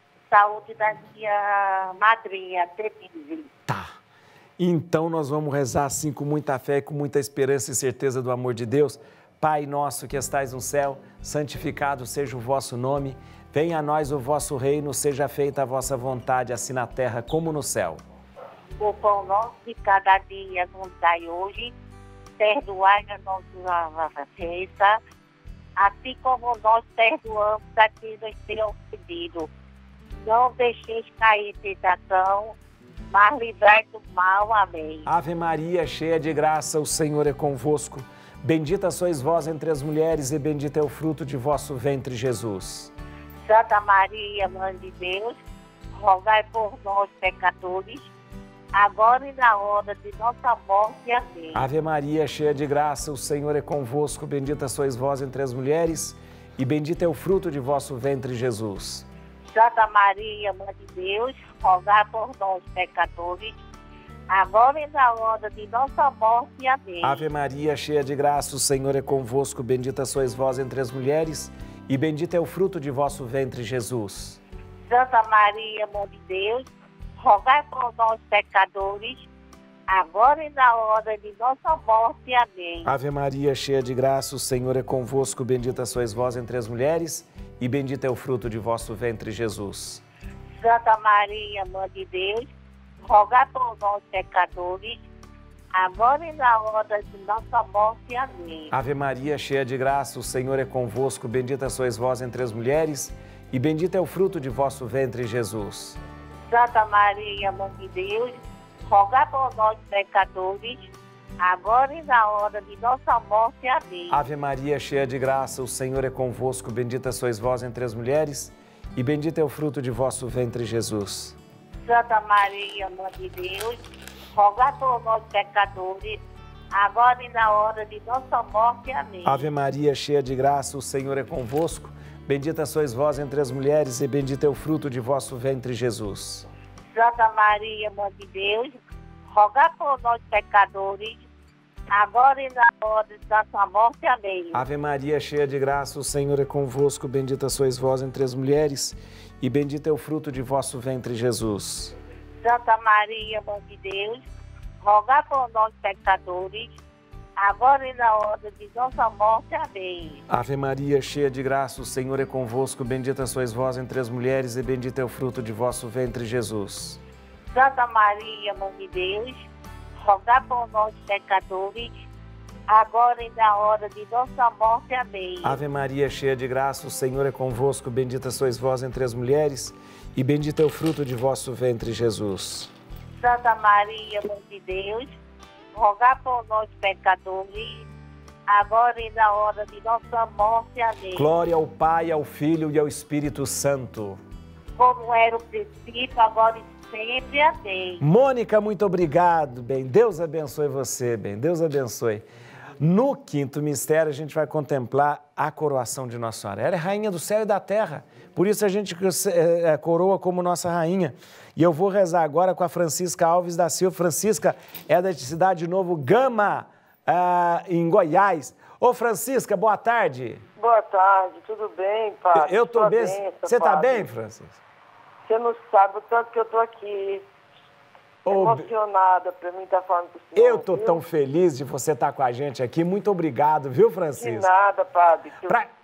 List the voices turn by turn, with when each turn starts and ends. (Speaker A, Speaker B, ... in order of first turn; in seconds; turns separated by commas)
Speaker A: 0.3-3.5, Speaker B: 3.7-4.0, Speaker B: 4.6-18.0, Speaker A: 18.8-21.7, Speaker A: 22.4-25.0, Speaker A: 25.8-29.5, Speaker A: 30.2-32.5, Speaker A: 33.1-35.1, Speaker B: 35.0-42.9, Speaker A: 43.4-45.4, Speaker A: 45.9-48.1, Speaker A: 48.7-51.6, Speaker B: 51.5-59.1, Speaker A: 59.5-63.6, Speaker A: 64.3-67.3, Speaker B: 67.0-74.4, Speaker A: 74.9-79.3, Speaker A: 79.9-82.9, Speaker B: 82.8-90.0, Speaker A: 90.5-92.5, Speaker A: 93.0-95.1, Speaker A: 95.7-98.7, Speaker B: 98.7-106.0, Speaker A: 106.5-114.2, Speaker B: 114.1-121.4, Speaker A: 121.8-123.8, Speaker A: 124.3-126.2, Speaker A: 126.7-129.5, Speaker B: 129.2-136.5, Speaker A: 136.9-138.8, Speaker A: 139.3-141.3, Speaker A: 141.9-144.6, Speaker B: 144.5-151.9, Speaker A: 152.4-154.3, Speaker A: 154.8-156.8, Speaker A: 157.4-160.2, Speaker B: 160.3-167.0, Speaker A: 167.5-172.0, Speaker A: 172.7-175.6, Speaker B: 175.4-182.7, Speaker A: 183.2-185.1, Speaker A: 185.7-187.9, Speaker A: 188.5-191.3, Speaker B: 191.1-194.2, Speaker A: 194.8-198.0, Speaker B: 198.0-202.2, Speaker B: 202.8-220.4, Speaker C: 220.6-224.1, Speaker B: 222.3-224.6, Speaker C: 225.2-227.2, Speaker B: 228.2-228.7, Speaker C: 228.3-231.0, Speaker B: 230.3-234.5, Speaker C: 234.2-235.6